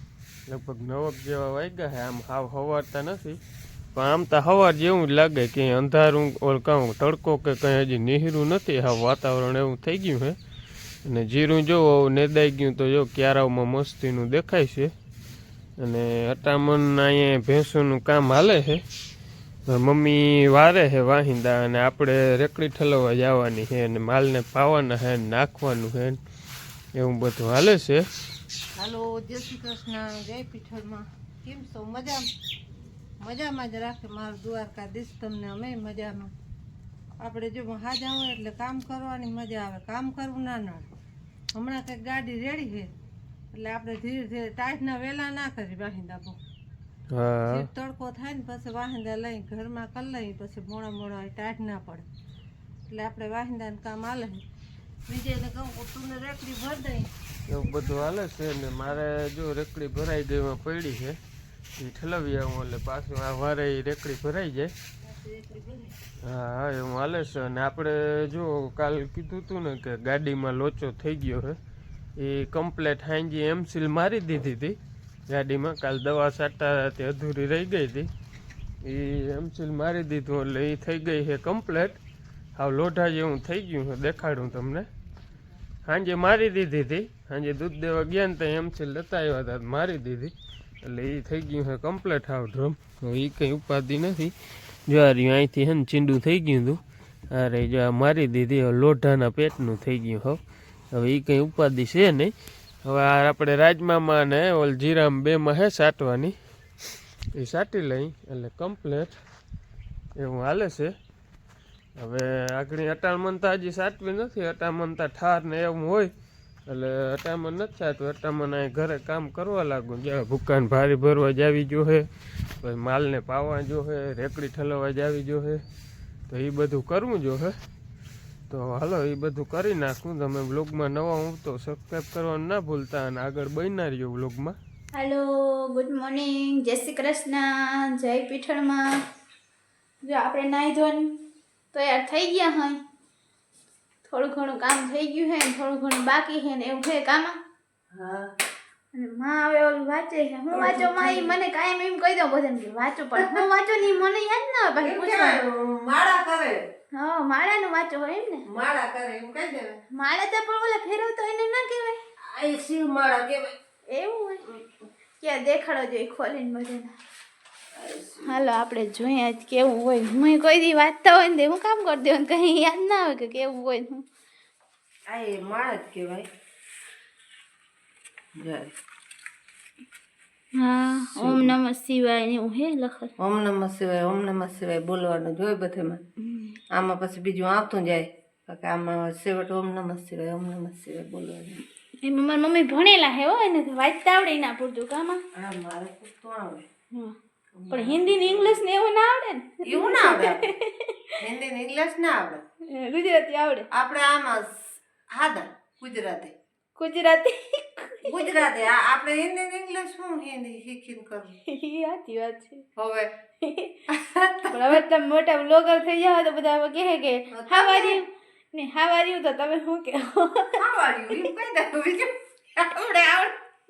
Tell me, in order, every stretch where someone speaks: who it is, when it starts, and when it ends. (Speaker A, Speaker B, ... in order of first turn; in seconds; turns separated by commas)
Speaker A: 0.5-3.4, Speaker A: 3.9-10.4, Speaker A: 11.0-14.9, Speaker A: 15.8-18.8, Speaker A: 19.7-26.2, Speaker A: 26.9-28.1, Speaker B: 28.8-32.2, Speaker B: 33.2-36.3, Speaker B: 37.2-40.9, Speaker B: 41.5-42.9, Speaker B: 43.5-46.4, Speaker A: 47.1-47.7, Speaker B: 47.5-52.0, Speaker B: 52.9-54.4, Speaker B: 55.1-57.1, Speaker A: 57.5-61.2, Speaker B: 57.6-58.0, Speaker A: 61.8-64.7, Speaker B: 65.0-66.0, Speaker A: 66.2-71.6, Speaker A: 72.2-74.8, Speaker A: 75.3-78.1, Speaker A: 78.8-82.0, Speaker A: 82.5-84.9, Speaker A: 85.8-94.3, Speaker A: 94.9-96.8, Speaker A: 97.3-100.4, Speaker A: 100.9-106.3, Speaker A: 107.3-109.2, Speaker A: 110.2-110.9, Speaker A: 112.0-116.1, Speaker A: 116.7-122.1, Speaker A: 122.6-125.6, Speaker A: 126.3-127.5, Speaker A: 128.5-134.6, Speaker C: 134.9-138.9, Speaker C: 140.0-141.1, Speaker C: 141.7-142.8, Speaker C: 144.0-147.4, Speaker B: 147.9-148.3, Speaker C: 148.9-155.4, Speaker B: 150.5-151.3, Speaker B: 153.2-153.4, Speaker B: 154.8-156.6, Speaker C: 156.9-158.4, Speaker B: 158.5-159.8, Speaker C: 159.9-162.0, Speaker B: 162.2-163.5, Speaker C: 163.9-164.6, Speaker C: 165.2-166.9, Speaker B: 167.8-168.4, Speaker C: 168.2-174.0, Speaker B: 175.1-176.2, Speaker B: 178.4-178.7, Speaker C: 180.5-183.1, Speaker B: 181.2-181.6, Speaker B: 183.2-186.0, Speaker C: 186.2-186.6, Speaker B: 186.7-191.6, Speaker C: 192.0-195.2, Speaker B: 195.3-196.6, Speaker B: 197.6-198.6, Speaker C: 197.7-201.1, Speaker B: 199.6-200.5, Speaker B: 201.2-202.4, Speaker C: 202.7-203.7, Speaker B: 203.7-206.3, Speaker C: 206.8-208.4, Speaker B: 208.0-211.3, Speaker C: 211.5-212.7, Speaker B: 212.8-213.1, Speaker C: 213.4-213.8, Speaker B: 213.9-214.6, Speaker C: 214.5-220.6, Speaker B: 217.3-218.0, Speaker B: 220.6-223.3